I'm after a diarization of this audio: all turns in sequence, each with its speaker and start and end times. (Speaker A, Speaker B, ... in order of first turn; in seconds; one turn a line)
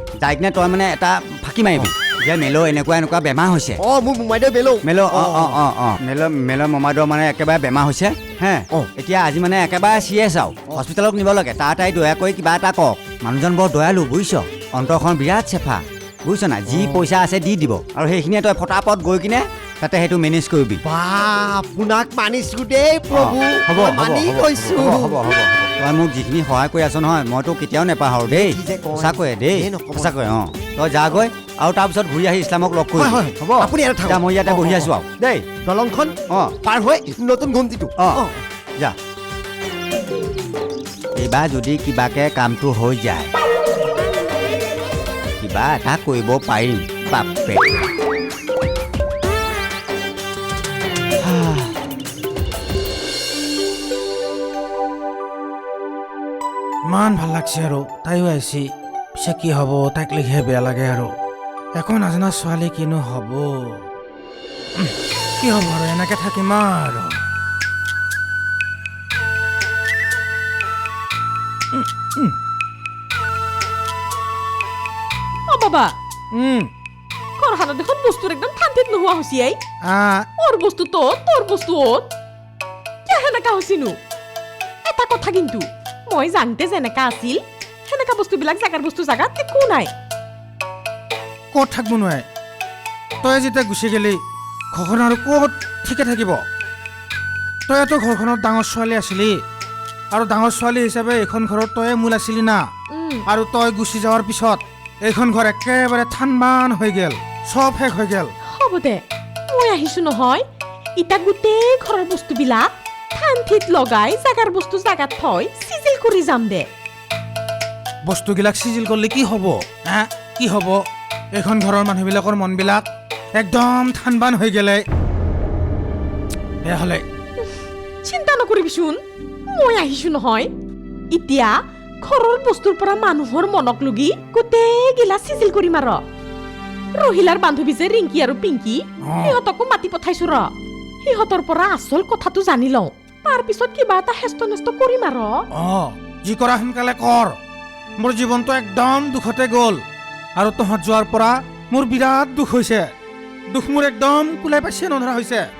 Speaker A: 0.2-3.8
Speaker B: 3.8-5.6
Speaker A: 4.8-20.8
Speaker B: 16.7-17.0
Speaker B: 20.8-25.2
Speaker A: 23.1-35.1
Speaker B: 28.2-30.2
Speaker B: 33.0-38.4
Speaker A: 41.1-43.3
Speaker A: 45.4-47.9
Speaker A: 51.2-51.7
Speaker C: 56.9-61.1
Speaker C: 61.8-63.5
Speaker C: 65.4-67.1
Speaker C: 71.7-72.3
Speaker D: 75.5-75.9
Speaker C: 76.3-76.7
Speaker D: 77.4-79.6
Speaker C: 79.8-80.2
Speaker D: 80.4-82.1
Speaker D: 83.1-84.0
Speaker D: 84.9-89.9
Speaker C: 91.5-92.2
Speaker C: 93.2-94.2
Speaker C: 94.7-96.4
Speaker C: 97.7-99.4
Speaker C: 100.1-102.7
Speaker D: 102.9-103.2
Speaker C: 103.3-108.3
Speaker D: 108.5-110.5
Speaker D: 111.0-116.7
Speaker C: 118.0-120.8
Speaker C: 121.3-124.8
Speaker C: 126.6-127.0
Speaker D: 128.0-130.5
Speaker D: 131.1-136.0
Speaker D: 137.0-140.5
Speaker C: 139.1-139.3
Speaker D: 141.0-145.4
Speaker C: 145.5-147.3
Speaker C: 148.0-149.8
Speaker C: 150.3-152.9
Speaker C: 153.5-155.4